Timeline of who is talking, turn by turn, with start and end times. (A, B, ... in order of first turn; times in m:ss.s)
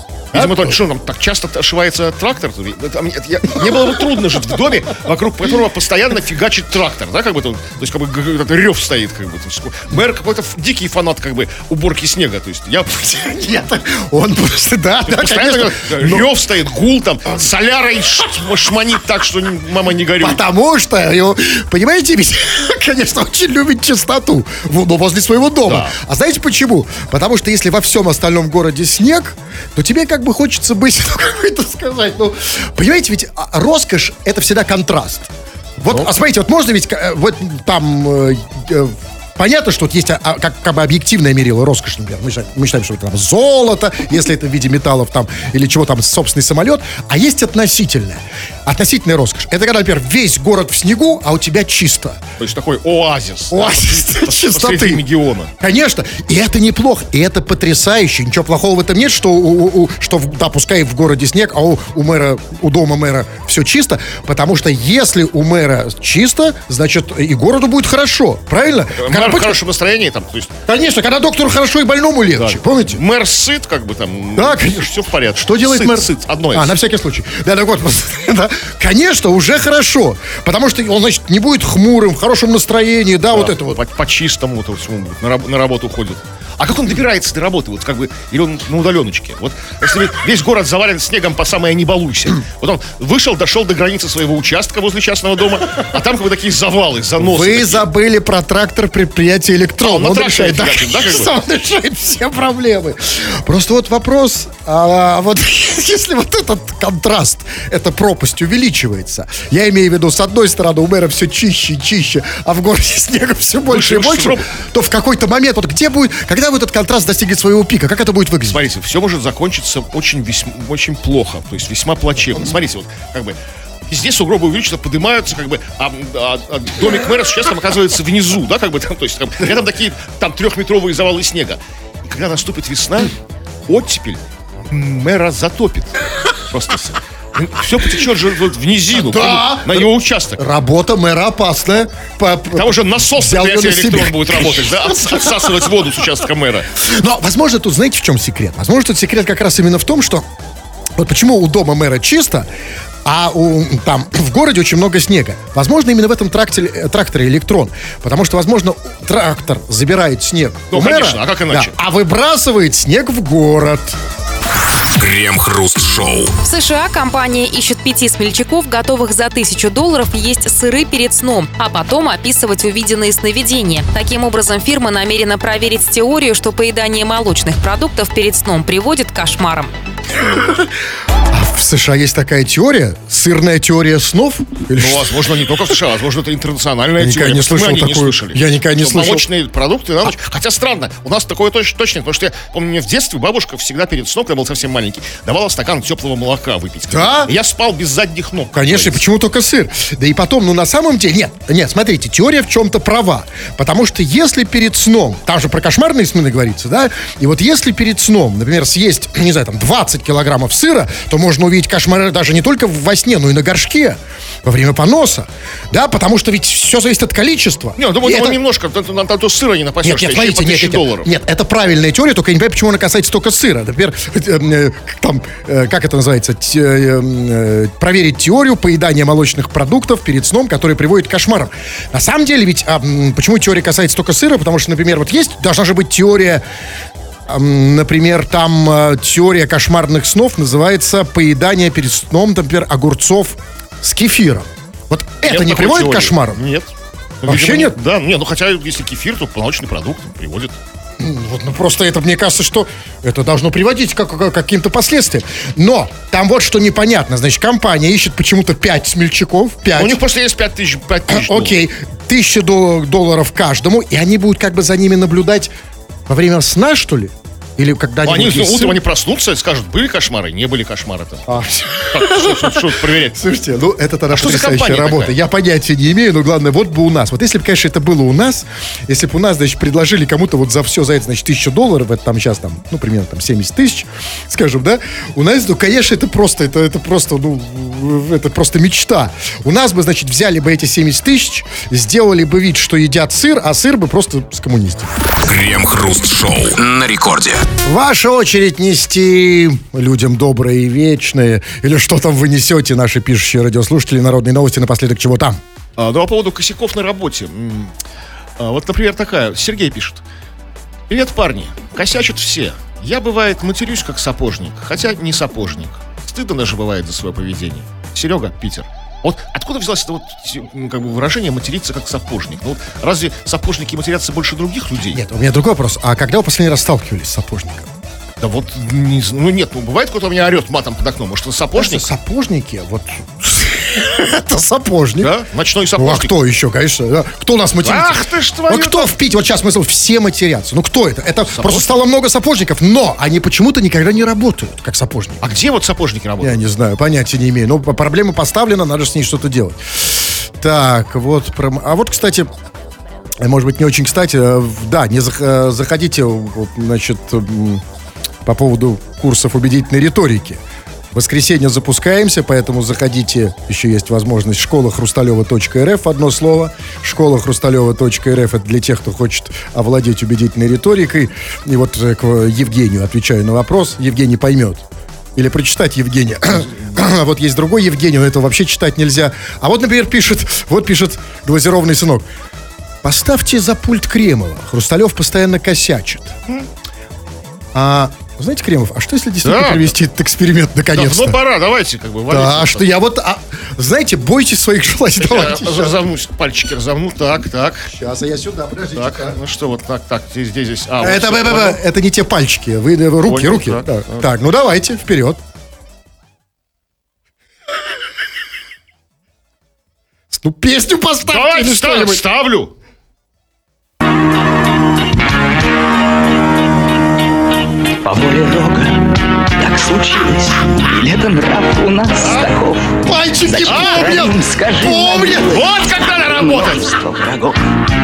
0:00.3-0:13.2 A
0:00.3-0:00.8 B
0:13.0-0:16.3 B
0:15.1-0:20.4 A
0:20.2-0:52.2 B
0:25.6-0:25.9 A
0:52.4-0:55.5 A
0:53.5-0:55.0 B
0:55.6-1:09.6 B
1:09.0-1:10.6 A
1:10.7-1:13.0 B
1:12.4-1:16.8 A
1:14.4-1:23.8 B
1:23.3-1:37.9 A
1:37.2-1:58.6 B
1:39.8-1:41.3 A
1:53.6-1:54.5 A
1:58.5-2:13.1 A
2:13.7-2:20.4 A
2:18.9-2:25.2 B
2:22.5-2:26.7 A
2:26.8-2:30.2 B
2:31.0-2:32.5 B
2:33.0-2:44.0 B
2:40.7-2:41.7 A
2:44.6-2:46.3 C
2:46.4-2:59.7 D
3:00.3-3:00.7 B
3:01.3-3:05.1 B
3:04.7-3:19.0 A
3:07.0-3:09.2 B
3:16.9-3:17.3 B
3:18.5-3:38.4 B
3:37.8-3:41.1 A
3:39.8-3:56.4 B
3:57.3-4:06.4 B
4:05.2-4:06.7 A
4:07.2-4:10.6 A
4:07.2-4:07.8 B
4:11.0-4:20.0 B
4:19.8-4:21.6 A
4:21.1-4:25.5 B
4:26.1-4:28.8 B
4:28.0-4:33.2 A
4:31.3-4:54.9 B
4:34.1-4:35.2 A
4:55.2-4:57.4 C
4:57.6-5:05.4 B
5:05.8-5:07.7 A
5:08.4-5:10.0 A
5:10.9-5:25.0 A
5:24.9-5:27.7 B
5:28.2-5:31.9 A
5:31.6-5:35.1 B
5:35.0-5:36.1 A
5:35.8-5:45.2 B
5:37.6-5:38.9 A
5:41.3-5:41.7 A
5:45.2-5:46.4 A
5:46.2-5:52.3 B
5:53.2-5:57.6 B
5:58.2-6:00.4 B
6:00.9-6:22.0 B
6:22.8-6:26.2 B
6:27.5-6:31.2 B
6:29.2-6:29.7 A
6:30.7-6:32.7 A
6:32.1-6:35.8 B
6:35.0-6:37.7 A
6:37.7-6:39.2 B
6:38.7-6:41.6 A
6:40.8-6:45.2 B
6:43.0-6:44.1 A
6:50.1-6:52.0 B
6:51.0-6:52.5 A
6:57.8-7:07.4 E
7:02.0-7:02.3 A
7:02.8-7:05.4 B
7:03.4-7:04.1 A
7:05.2-7:06.7 A